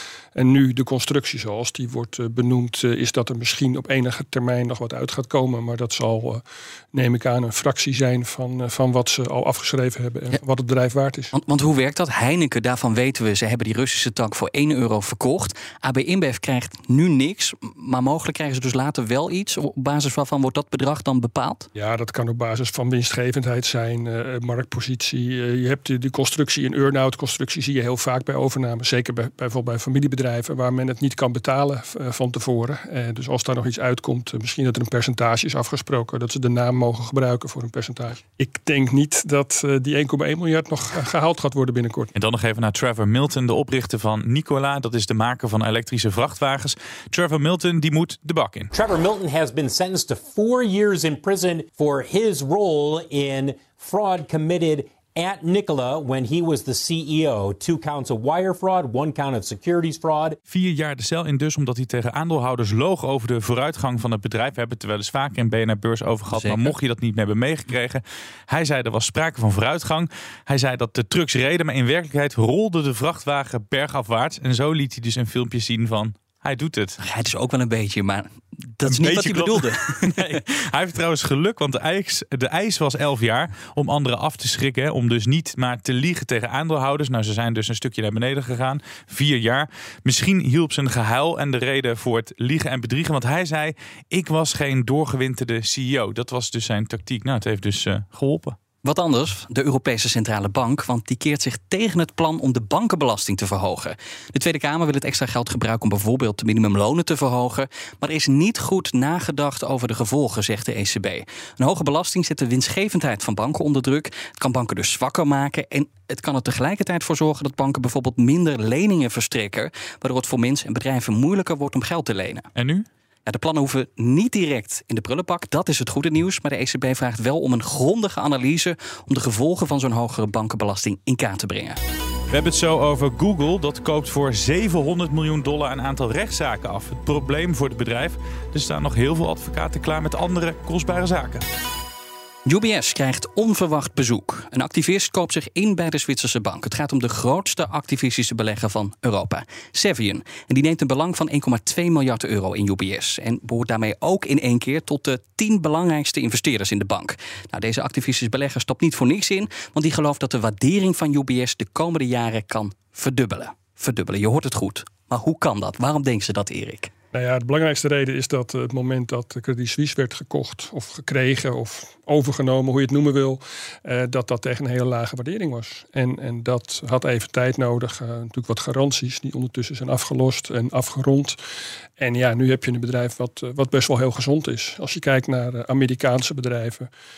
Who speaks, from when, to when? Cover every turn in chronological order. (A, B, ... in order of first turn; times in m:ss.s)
0:00.3-0:11.3 A
0:11.3-0:21.6 B
0:21.7-0:42.1 A
0:42.1-0:48.7 C
0:48.7-1:00.4 D
1:00.5-1:17.0 C
1:06.3-1:06.7 B
1:17.0-1:20.4 B
1:18.8-1:38.6 C
1:38.8-2:02.5 B
2:02.6-2:02.8 C
2:03.2-2:11.8 B
2:12.3-2:21.4 C
2:22.4-2:46.9 B
2:47.1-3:01.4 A
3:02.0-3:06.9 A